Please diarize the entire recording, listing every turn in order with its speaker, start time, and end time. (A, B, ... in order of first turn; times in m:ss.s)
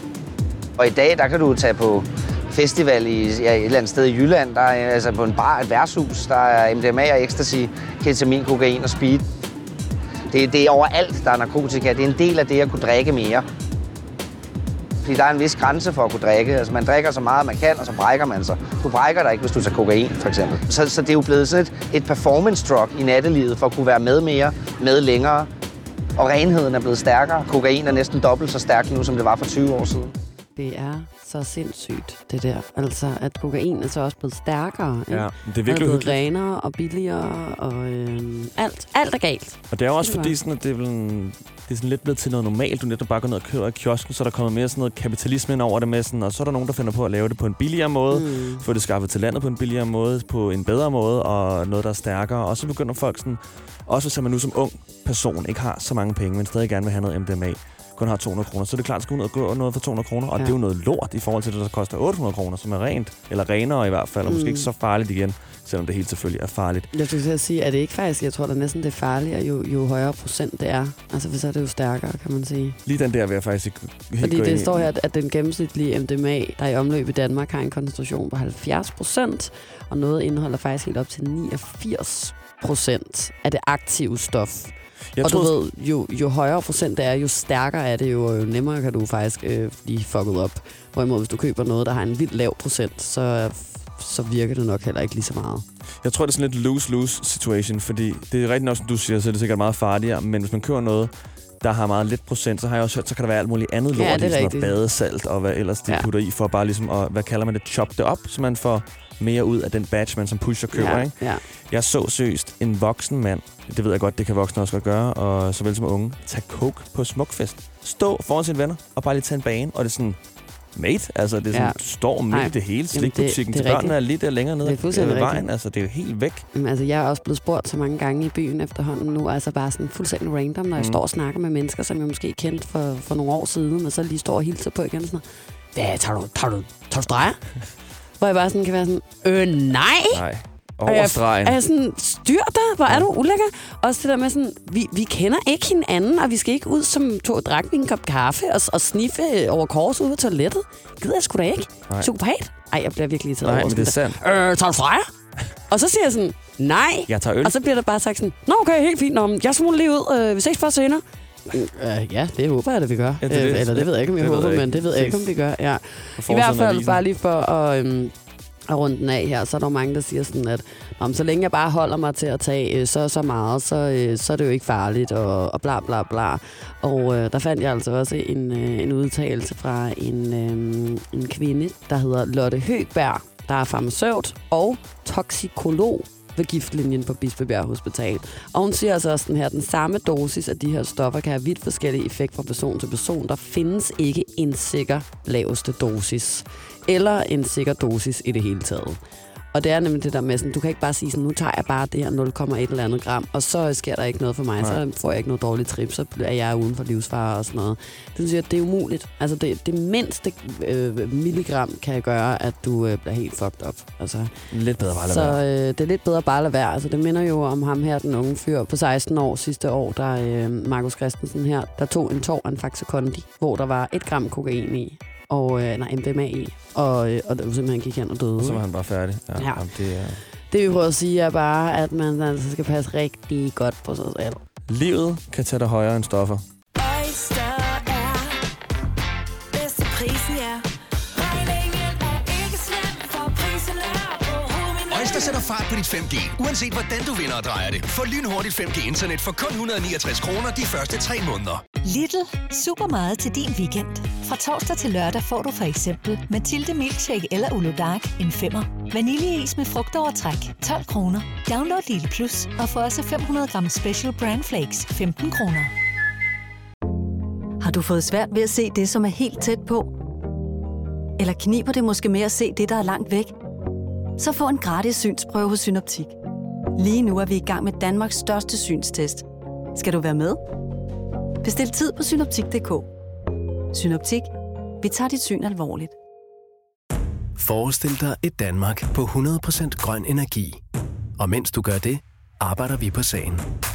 0:00.8-0:09.2 A
0:10.3-0:13.4 A
0:15.0-0:25.5 A
0:26.2-0:30.1 A
0:30.6-0:40.4 B
0:35.1-0:36.2 C
0:39.7-1:06.9 C
0:48.1-0:48.6 B
1:04.2-1:04.7 B
1:06.9-1:12.8 B
1:12.8-1:14.9 C
1:14.2-1:35.6 B
1:25.1-1:25.5 C
1:36.0-1:51.2 C
1:43.9-1:44.8 B
1:50.7-1:51.4 B
1:51.7-2:00.2 C
2:00.8-2:06.4 C
2:01.5-2:04.0 B
2:04.6-2:05.4 B
2:06.5-2:15.2 B
2:15.8-2:17.4 B
2:18.2-2:20.2 B
2:20.1-2:21.6 C
2:20.9-2:35.1 B
2:33.4-2:34.2 C
2:35.7-2:48.1 B
2:37.1-2:37.6 C
2:43.2-2:45.3 C
2:46.2-2:47.0 C
2:48.7-3:19.0 B
3:19.5-3:34.3 B
3:34.5-3:35.4 C
3:34.9-3:48.6 B
3:48.4-3:50.2 C
3:49.4-3:49.7 B
3:50.5-3:54.4 B
3:54.7-3:56.4 C
3:56.8-3:58.4 D
3:59.5-4:05.4 D
4:04.9-4:11.6 E
4:11.8-4:25.7 F
4:27.6-4:29.9 G
4:31.2-4:33.3 G
4:34.2-4:36.1 G
4:36.8-4:40.4 G
4:41.4-4:42.9 G
4:43.7-4:45.9 G
4:47.4-4:50.6 H
4:51.2-4:53.4 H